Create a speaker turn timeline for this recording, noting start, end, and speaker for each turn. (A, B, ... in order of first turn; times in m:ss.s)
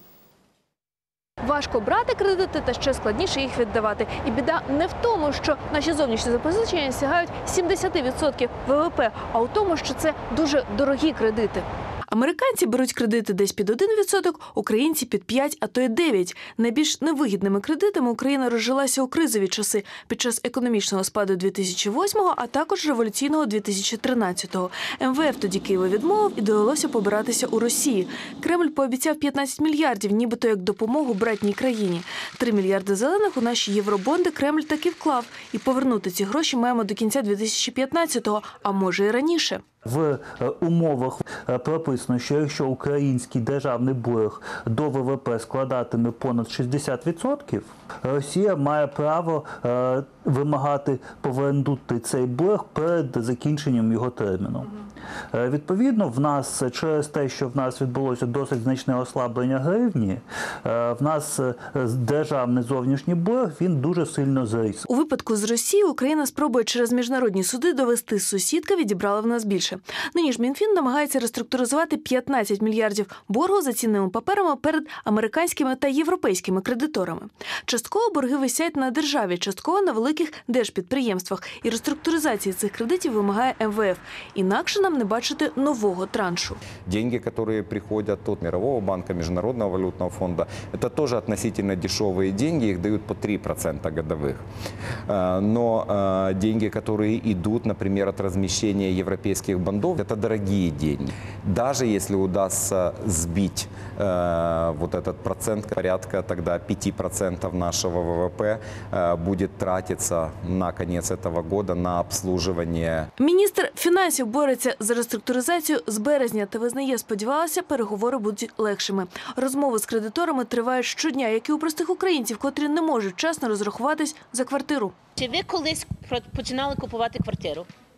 0:01.4-0:39.6 A
0:39.8-0:54.7 B
0:55.3-1:04.8 B
1:04.9-1:26.6 A
1:26.8-1:34.4 C
1:35.1-1:53.1 C
1:53.2-2:04.9 A
2:05.2-2:07.7 D